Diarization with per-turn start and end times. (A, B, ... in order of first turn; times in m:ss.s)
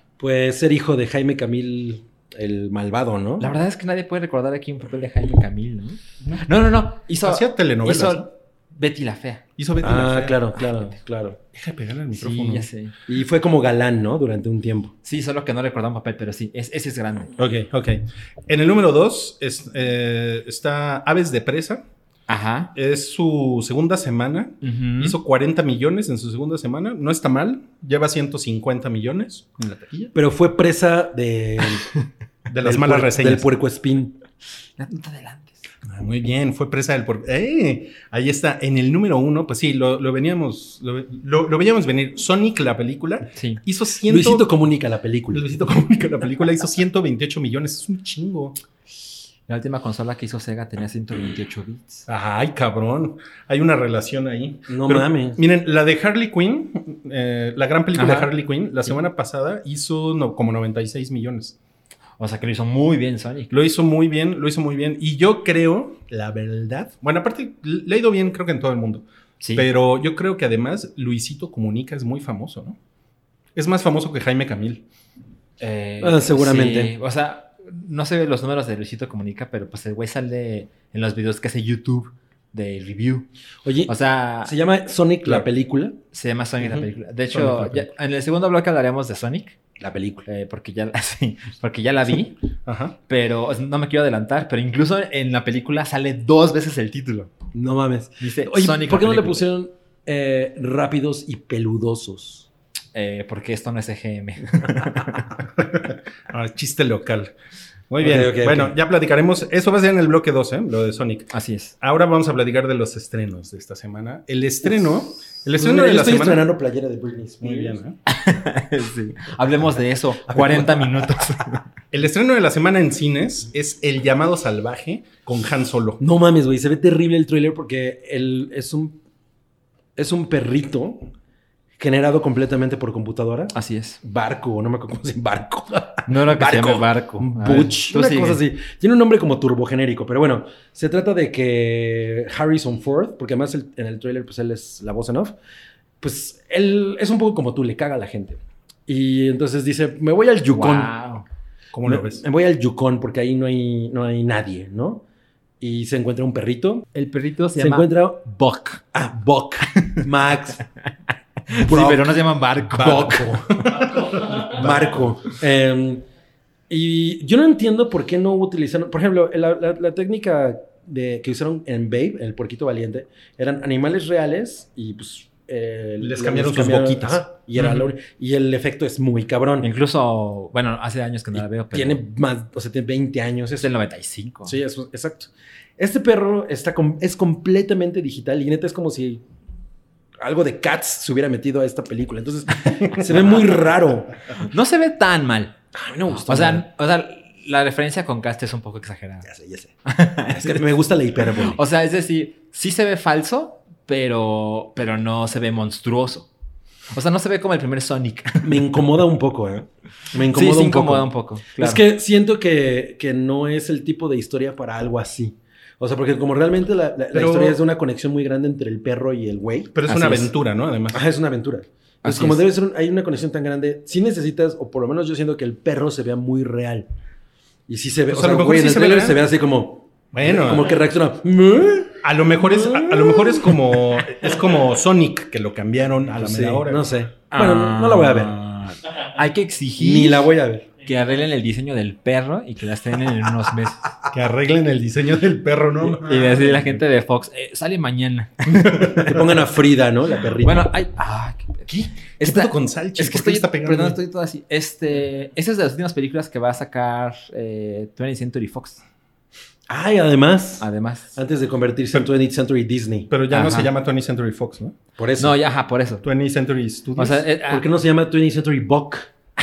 0:00.2-0:03.5 A
0:03.4-0:09.4 B
0:07.2-0:08.3 C
0:09.6-0:10.4 C
0:09.8-0:11.4 A
0:11.5-0:12.7 C
0:12.2-0:12.9 B
0:13.1-0:14.9 A
0:15.0-0:17.3 B
0:17.4-0:21.8 C
0:22.3-0:22.7 B
0:22.7-0:30.1 C
0:24.6-0:25.2 B
0:30.1-0:31.9 A
0:32.5-0:33.5 C
0:32.6-0:34.1 A
0:34.8-0:35.6 B
0:35.8-0:44.5 C
0:43.3-0:43.6 B
0:44.0-0:45.5 A
0:45.3-0:48.6 C
0:49.5-0:52.0 B
0:52.1-1:01.6 C
0:54.7-0:55.4 A
0:58.0-0:58.3 B
1:02.2-1:03.5 B
1:03.5-1:12.8 C
1:09.4-1:09.7 B
1:13.5-1:14.8 C
1:15.6-1:23.3 B
1:16.0-1:16.9 A
1:23.6-1:26.0 A
1:23.8-1:24.5 B
1:26.1-1:29.6 B
1:26.6-1:27.9 C
1:29.8-1:30.2 A
1:30.2-1:32.4 B
1:32.6-1:32.9 C
1:33.1-1:37.3 B
1:37.5-1:42.5 A
1:38.2-1:39.4 B
1:42.9-1:45.3 B
1:45.6-1:47.3 C
1:47.9-1:56.4 C
1:48.0-1:48.7 A
1:51.3-1:51.7 B
1:55.6-1:57.8 A
1:57.4-1:58.0 C
1:58.1-2:01.6 B
2:01.9-2:06.0 C
2:06.0-2:09.0 A
2:10.0-2:11.1 A
2:11.8-2:25.3 A
2:13.5-2:14.0 B
2:16.0-2:18.4 B
2:26.0-2:30.9 A
2:30.5-2:31.2 B
2:31.7-2:32.2 C
2:31.8-2:35.0 A
2:35.6-2:36.9 A
2:36.9-2:38.8 B
2:37.6-2:38.3 A
2:38.9-2:40.6 A
2:41.5-2:43.2 B
2:41.6-2:42.1 A
2:42.7-2:46.0 A
2:42.8-2:45.0 C
2:46.7-2:59.7 A
2:56.0-2:57.2 C
2:57.6-2:57.8 B
2:59.6-3:02.0 B
3:01.7-3:03.7 A
3:03.6-3:04.6 B
3:04.4-3:09.2 A
3:10.2-3:14.3 A
3:14.4-3:15.6 B
3:15.7-3:16.6 A
3:16.1-3:19.2 B
3:19.2-3:19.7 A
3:19.8-3:20.6 B
3:20.3-3:21.6 A
3:21.4-3:26.3 B
3:26.9-3:28.7 B
3:28.4-3:39.9 A
3:30.3-3:31.8 B
3:37.1-3:37.6 C
3:39.7-3:41.0 C
3:39.9-3:40.3 B
3:40.9-3:46.9 A
3:42.0-3:42.4 B
3:47.7-3:53.6 A
3:48.1-3:49.2 C
3:50.1-3:50.7 C
3:52.0-3:56.9 C
3:56.2-3:58.4 A
3:57.3-4:00.2 B
3:59.8-4:00.7 A
4:00.8-4:03.9 B
4:04.1-4:06.7 C
4:06.0-4:09.2 B
4:08.5-4:09.0 C
4:08.9-4:10.7 A
4:10.4-4:18.8 B
4:12.2-4:14.0 C
4:19.7-4:23.1 A
4:20.6-4:21.2 B
4:23.1-4:24.8 C
4:23.3-4:23.7 B
4:25.0-4:25.3 A
4:25.2-4:26.0 B
4:26.0-4:27.2 C
4:27.0-4:27.6 B
4:27.5-4:29.1 A